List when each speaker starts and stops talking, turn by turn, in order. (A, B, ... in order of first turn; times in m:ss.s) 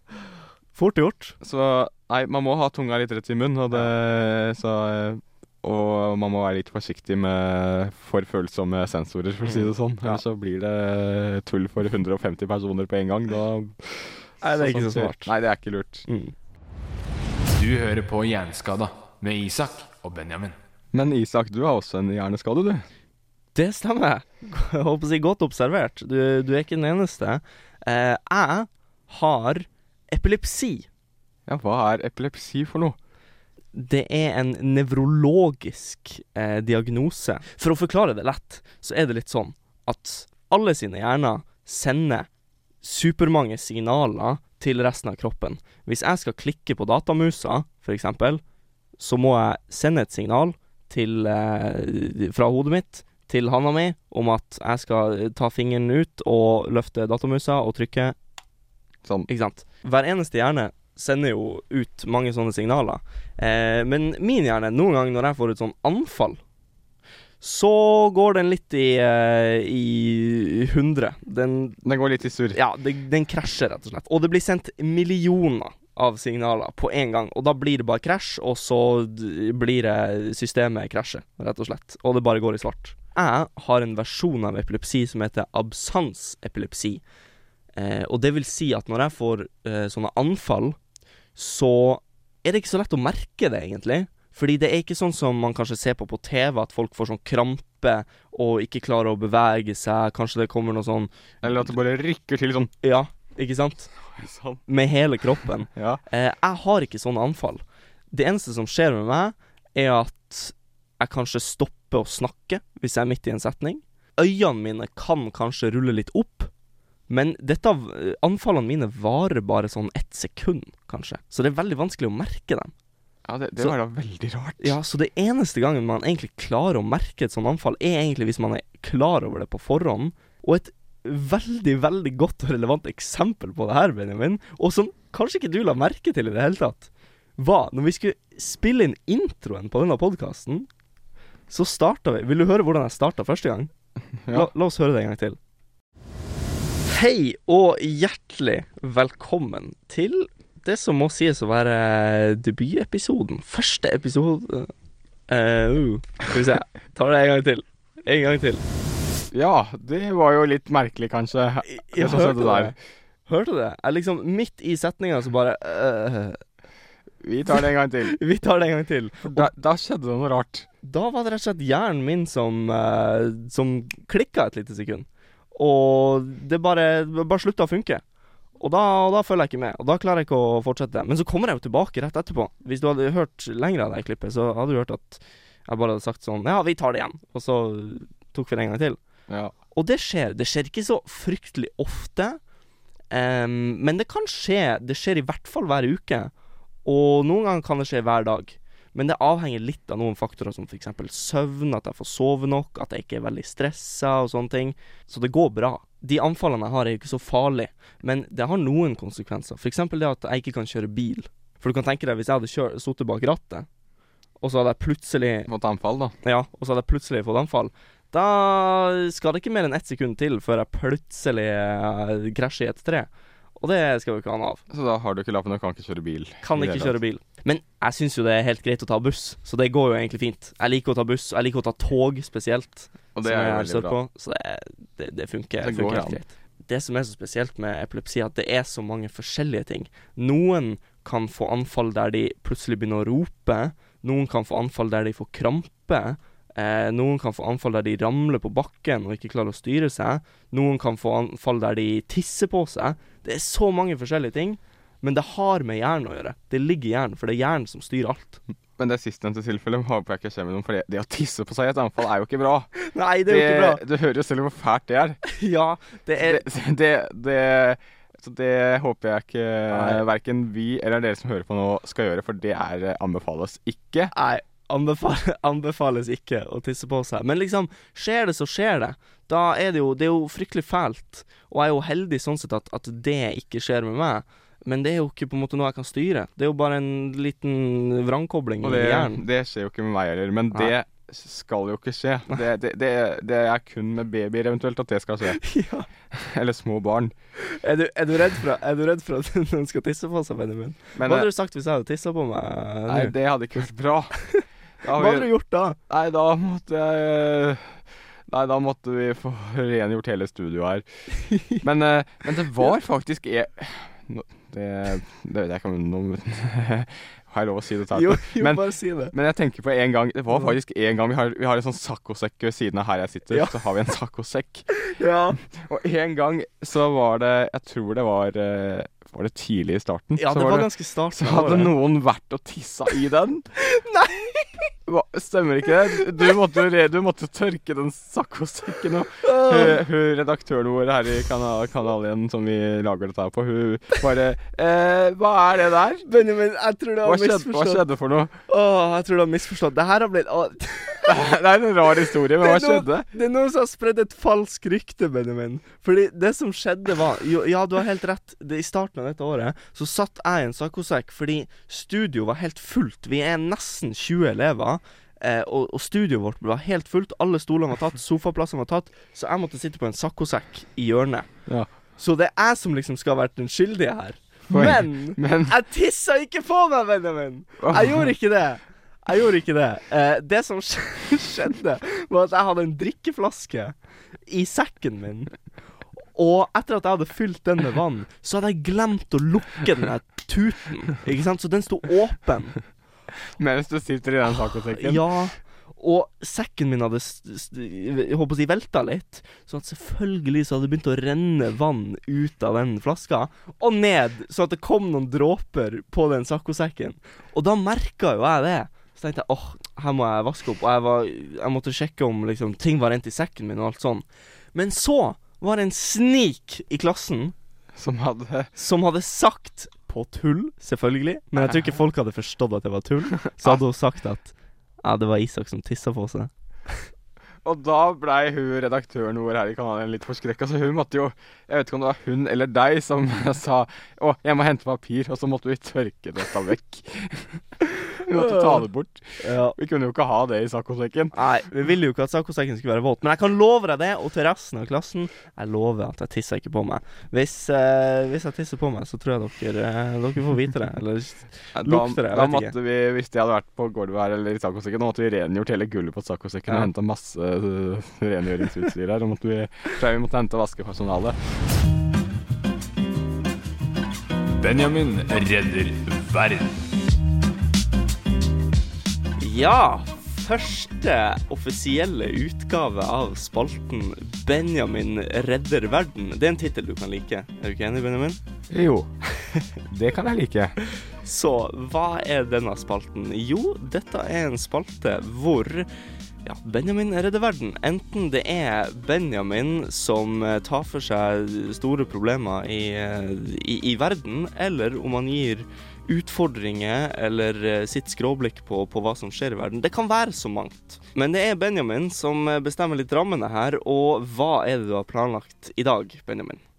0:00.7-0:01.4 A
0:01.4-0:16.1 B
0:09.4-0:10.2 A
0:14.4-0:15.3 A
0:16.1-0:16.3 A
0:17.5-0:20.6 C
0:20.9-0:22.8 B
0:23.5-0:30.9 A
0:31.5-0:33.0 B
0:33.7-0:42.3 A
0:42.8-0:48.4 A
0:49.0-0:58.2 A
0:59.3-1:06.4 A
1:07.4-1:11.8 A
1:11.8-1:12.6 B
1:12.5-1:27.0 A
1:27.8-1:30.8 A
1:31.4-1:41.7 A
1:41.4-1:42.7 B
1:42.8-1:43.9 A
1:44.0-1:44.6 B
1:44.7-1:56.5 A
1:45.7-1:46.0 B
1:57.1-2:02.7 A
2:03.3-2:04.8 B
2:04.6-2:20.7 A
2:21.5-2:23.7 A
2:24.2-2:24.5 B
2:24.3-2:25.4 A
2:26.9-2:34.7 A
2:35.3-2:38.6 A
2:39.3-2:42.8 B
2:41.7-2:42.8 A
2:43.3-2:46.4 A
2:47.2-2:48.2 B
2:47.5-2:49.5 A
2:49.3-2:50.7 B
2:50.8-2:58.0 A
2:58.6-3:09.0 A
3:09.3-3:09.5 B
3:09.7-3:12.4 A
3:13.1-3:16.3 A
3:16.8-3:33.7 A
3:34.4-3:35.5 A
3:35.5-3:36.2 B
3:36.2-3:44.6 A
3:44.7-3:47.0 B
3:46.4-4:18.4 A
3:53.2-3:54.0 B
3:55.6-3:56.2 B
4:18.8-4:22.7 B
4:22.8-4:23.8 A
4:23.3-4:25.2 B
4:25.2-4:26.4 A
4:26.2-4:34.1 B
4:29.7-4:30.0 A
4:34.1-4:49.2 A
4:48.6-4:55.4 B
4:55.3-4:55.9 A
4:56.1-4:57.1 B
4:57.4-5:03.1 A
5:01.0-5:01.3 B
5:02.9-5:04.2 B
5:04.3-5:05.8 A
5:04.8-5:05.3 B
5:05.9-5:10.8 B
5:11.2-5:11.6 A
5:11.5-5:24.7 B
5:17.9-5:19.1 A
5:23.3-5:23.6 A
5:24.7-5:25.4 A
5:25.4-5:33.5 B
5:30.2-5:31.8 A
5:33.6-5:34.7 A
5:34.9-5:46.1 B
5:39.2-5:39.8 A
5:46.0-5:47.8 A
5:47.0-5:48.3 B
5:48.5-5:51.3 A
5:51.1-5:53.1 B
5:52.3-6:11.3 A
6:12.0-6:23.8 A
6:14.5-6:15.6 B
6:17.6-6:18.1 B
6:24.3-6:25.3 A
6:26.1-6:32.6 A
6:33.4-6:35.1 B
6:34.7-6:57.4 A
6:57.7-6:58.5 B
6:58.6-7:06.8 A
7:07.4-7:21.2 B
7:18.1-7:18.6 A
7:19.2-7:19.6 A
7:21.1-7:32.6 A
7:31.6-7:41.2 B
7:44.4-7:46.6 C
7:49.2-7:58.2 A
7:58.5-7:58.9 B
7:59.6-8:00.6 B
8:00.8-8:05.7 A
8:06.2-8:26.4 A